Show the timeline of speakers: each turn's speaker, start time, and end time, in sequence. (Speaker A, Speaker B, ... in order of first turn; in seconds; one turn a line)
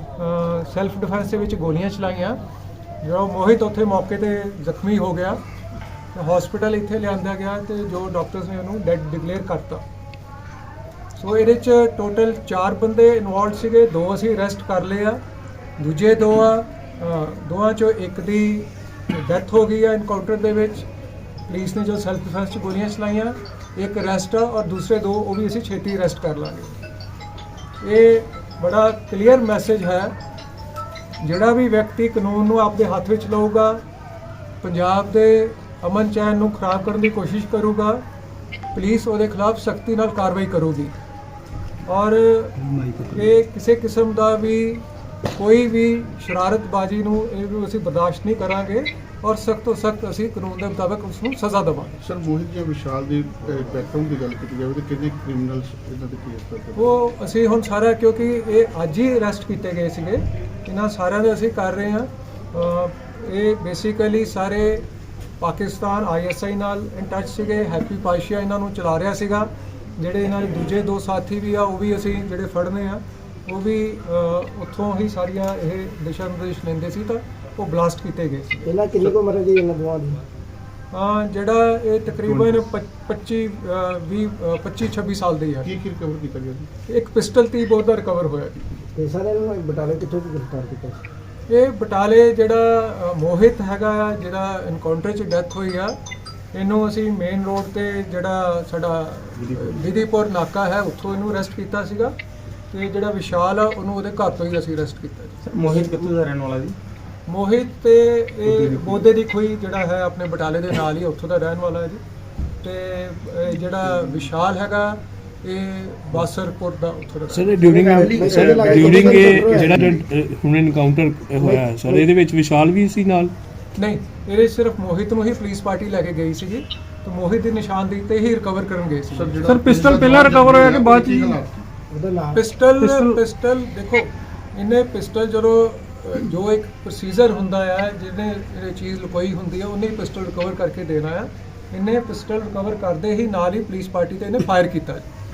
Speaker A: 0.2-2.4
Speaker A: 3.0-5.4
Speaker A: 6.1-9.8
Speaker A: 11.2-15.2
Speaker A: 15.8-20.9
Speaker A: 21.5-26.8
Speaker A: 27.8-30.1
Speaker A: 31.2-33.8
Speaker A: 34.6-38.0
Speaker A: 38.7-40.9
Speaker A: 41.9-42.6
Speaker B: 42.6-43.1
Speaker A: 43.1-52.0
Speaker C: 52.0-56.9
Speaker A: 56.8-64.8
Speaker A: 65.4-78.7
Speaker D: 78.6-80.2
Speaker A: 80.9-85.7
Speaker C: 82.2-82.6
Speaker C: 85.6-86.7
Speaker A: 86.9-88.6
Speaker D: 88.9-91.0
Speaker A: 91.5-95.9
Speaker A: 96.5-102.1
Speaker B: 99.4-99.7
Speaker A: 102.7-105.9
Speaker B: 105.4-106.8
Speaker A: 107.3-112.0
Speaker B: 108.5-109.0
Speaker A: 112.6-117.5
Speaker E: 117.3-123.3
Speaker D: 117.6-120.0
Speaker C: 118.3-118.9
Speaker C: 119.5-119.9
Speaker D: 121.4-122.1
Speaker A: 123.8-131.4
Speaker C: 129.1-131.7
Speaker D: 131.9-132.4
Speaker A: 132.3-145.1
Speaker E: 132.8-133.2